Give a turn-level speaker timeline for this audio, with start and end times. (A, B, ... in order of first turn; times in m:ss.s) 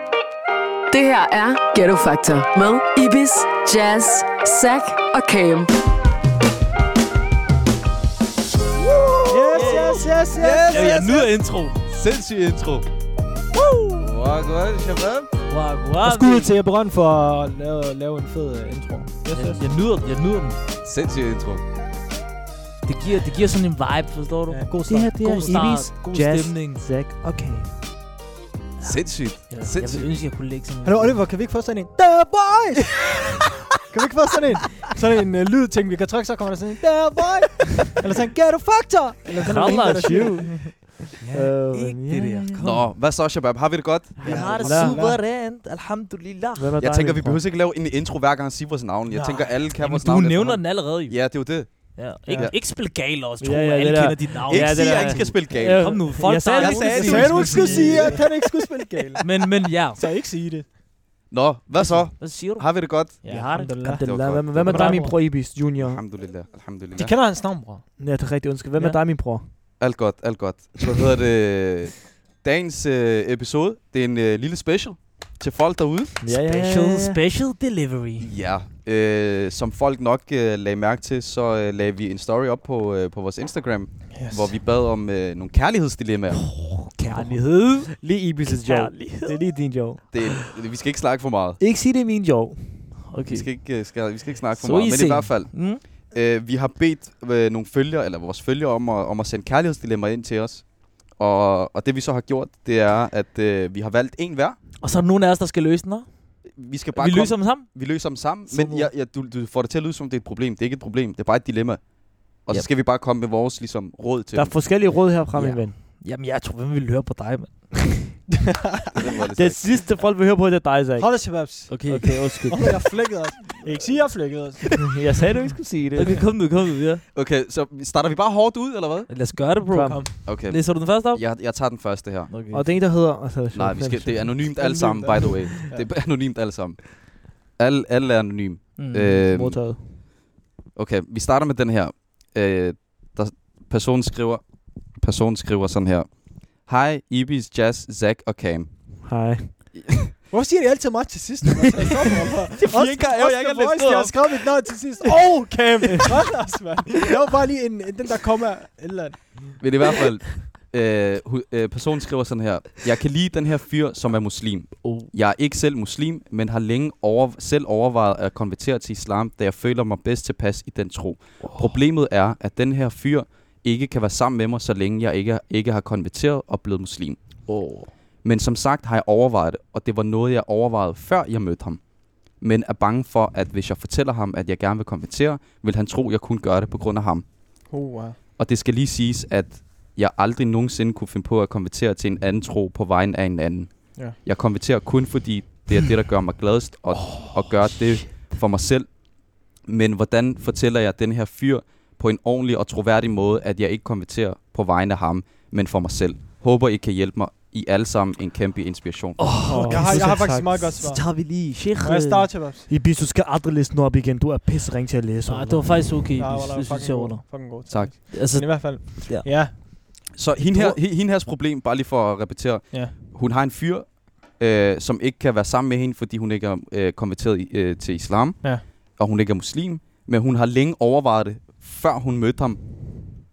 0:00.9-0:05.7 A
0:08.8-0:11.3 B
0:09.3-0:11.2 C
0:09.5-0:10.1 D
0:10.7-0:11.8 D
0:11.9-0:12.9 B
0:14.0-0:15.3 B
0:15.5-0:16.6 D
0:16.0-0:19.6 C
0:19.3-0:20.6 D
0:20.8-0:21.6 B
0:22.9-0:26.8 D
0:24.5-0:25.7 C
0:24.9-0:27.8 E
0:28.8-0:31.2 D
0:28.8-0:30.1 B
0:30.8-0:33.0 C
0:33.8-0:40.8 C
0:39.4-0:42.5 E
0:41.2-0:42.9 D
0:42.6-0:44.6 B
0:44.2-0:46.7 D
0:44.2-0:45.2 C
0:44.5-0:44.9 E
0:46.6-0:47.4 E
0:46.8-0:52.6 B
0:49.1-0:49.5 C
0:49.8-0:51.2 D
0:52.0-0:58.1 D
0:53.4-0:58.2 E
0:54.5-0:58.3 B
0:57.0-0:59.2 C
0:59.2-1:00.0 D
1:00.0-1:00.7 C
1:01.3-1:03.2 B
1:01.8-1:03.8 D
1:03.2-1:04.1 C
1:03.7-1:06.0 E
1:04.0-1:05.0 B
1:04.7-1:05.1 C
1:04.7-1:05.1 D
1:05.8-1:07.1 B
1:07.0-1:07.8 C
1:08.0-1:09.4 E
1:09.8-1:16.2 B
1:16.2-1:17.2 E
1:16.3-1:18.3 D
1:18.2-1:26.7 B
1:24.1-1:24.5 C
1:26.6-1:27.9 D
1:27.1-1:30.4 E
1:28.5-1:29.4 D
1:30.1-1:31.6 B
1:31.6-1:33.2 E
1:33.1-1:33.5 D
1:33.3-1:44.6 B
1:34.5-1:35.8 D
1:44.8-1:46.2 D
1:46.6-1:51.8 B
1:46.9-1:47.7 D
1:48.5-1:48.9 C
1:52.4-1:54.6 B
1:54.3-1:55.7 E
1:55.3-1:58.0 D
1:58.5-1:59.2 C
1:58.9-1:59.8 B
1:59.4-2:02.8 E
2:01.0-2:04.8 C
2:01.7-2:02.1 D
2:04.8-2:06.2 E
2:05.9-2:07.0 D
2:07.1-2:09.1 B
2:09.1-2:11.2 D
2:09.7-2:10.0 E
2:10.2-2:12.3 B
2:12.3-2:12.7 D
2:12.5-2:15.6 E
2:13.5-2:19.6 B
2:18.8-2:19.2 D
2:19.2-2:19.8 E
2:20.8-2:24.4 B
2:25.0-2:26.1 B
2:26.6-2:28.7 B
2:29.1-2:29.9 E
2:30.3-2:39.3 C
2:32.6-2:34.1 D
2:33.6-2:34.1 B
2:39.6-2:57.2 B
2:57.5-2:57.9 D
2:58.2-3:01.8 B
3:02.4-3:07.2 B
3:07.7-3:08.2 C
3:08.4-3:18.9 B
3:19.6-3:29.3 B
3:29.2-3:32.3 D
3:29.5-3:30.7 E
3:29.5-3:31.1 C
3:31.8-3:32.7 C
3:32.7-3:35.7 E
3:35.3-3:37.3 D
3:36.2-3:40.8 C
3:38.1-3:39.3 D
3:40.1-3:52.6 B